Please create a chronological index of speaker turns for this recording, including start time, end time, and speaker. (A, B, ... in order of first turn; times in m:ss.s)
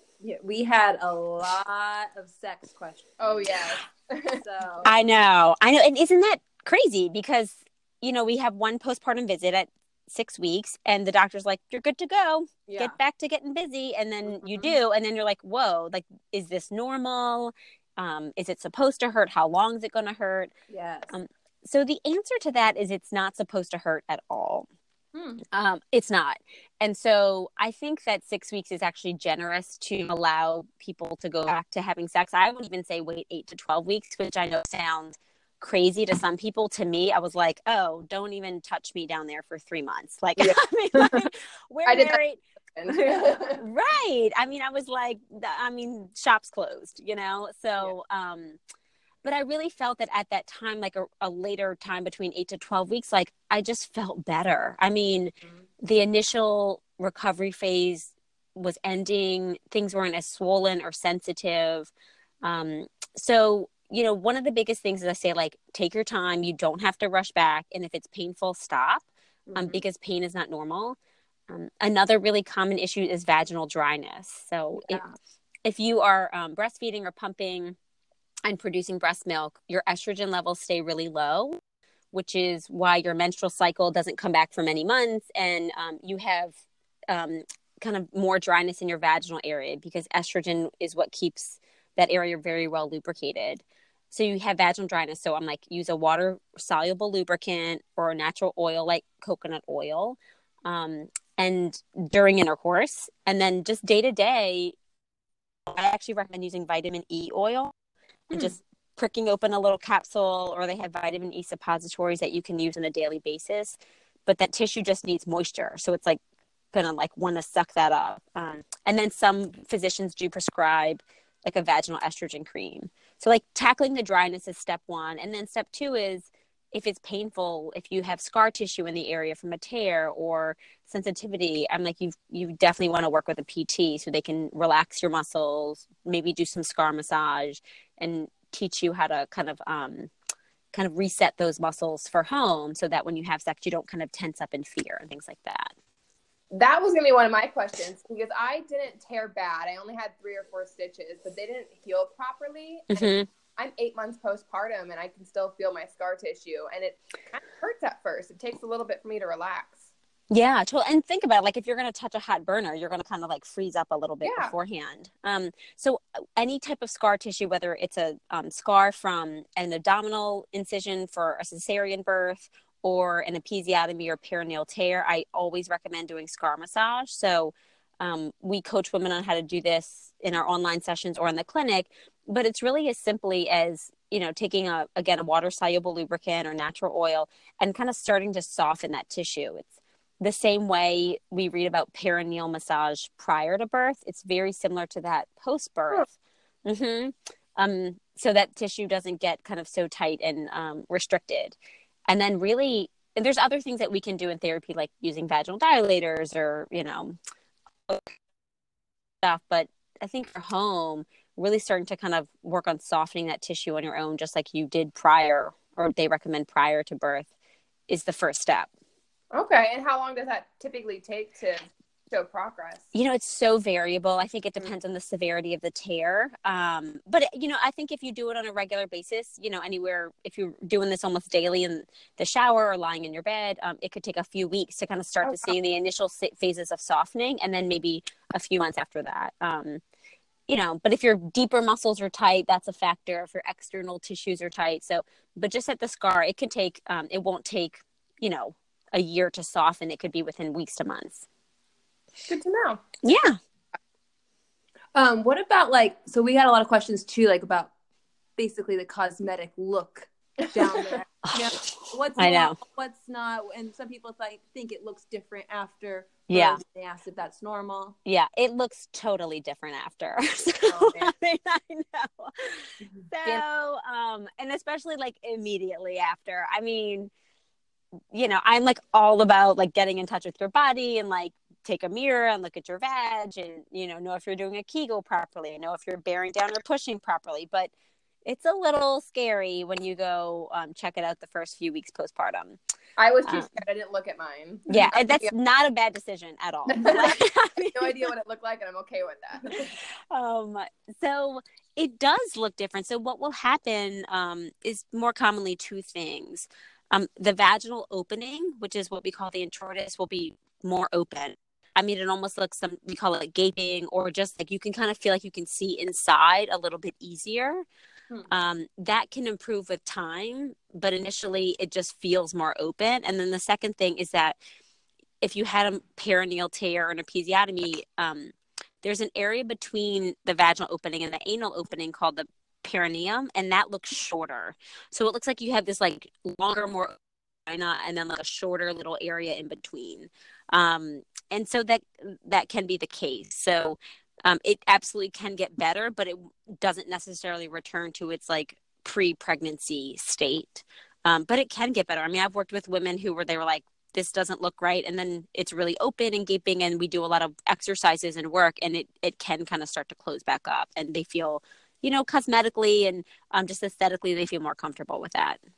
0:00.2-0:03.7 A
0:03.2-0:04.4 B
0:04.4-0:04.9 A
0:04.8-0:20.5 C
0:12.7-0:13.0 A
0:14.3-0:14.8 A
0:20.7-0:21.1 A
0:21.1-0:24.6 C
0:25.1-0:25.4 A
0:25.5-0:48.6 C
0:41.8-0:42.2 B
0:42.8-0:43.6 B
0:49.2-1:01.9 C
1:02.4-1:11.0 C
1:09.5-1:09.8 A
1:11.5-1:15.0 C
1:14.8-1:15.1 A
1:15.6-1:17.8 C
1:18.4-1:21.6 C
1:22.1-1:26.6 C
1:27.1-1:44.8 C
1:45.7-1:47.7 C
1:48.3-1:56.2 C
1:56.7-2:20.1 C
2:20.7-2:25.7 C
2:26.5-2:39.9 B
2:32.9-2:33.3 C
2:40.3-3:16.1 C
2:44.2-2:44.5 B
3:16.6-3:21.6 C
3:22.1-3:27.2 C
3:27.9-3:28.2 C
3:29.2-3:37.3 C
3:37.9-3:38.7 C
3:39.3-3:42.8 B
3:42.9-3:59.8 C
4:00.5-4:11.2 C
4:12.3-4:12.8 B
4:13.0-4:13.4 C
4:14.9-4:17.7 A
4:18.4-4:28.0 A
4:21.2-4:21.5 C
4:22.2-4:22.6 C
4:26.3-4:26.6 C
4:28.0-4:37.1 C
4:30.7-4:31.1 A
4:33.0-4:33.4 A
4:38.1-4:47.7 C
4:48.2-4:52.6 C
4:53.0-4:55.3 B
4:53.2-4:53.5 C
4:54.7-4:58.1 C
4:56.8-4:57.2 B
4:57.7-4:59.7 B
4:59.6-5:17.6 C
5:18.3-5:24.4 C
5:25.2-6:05.4 C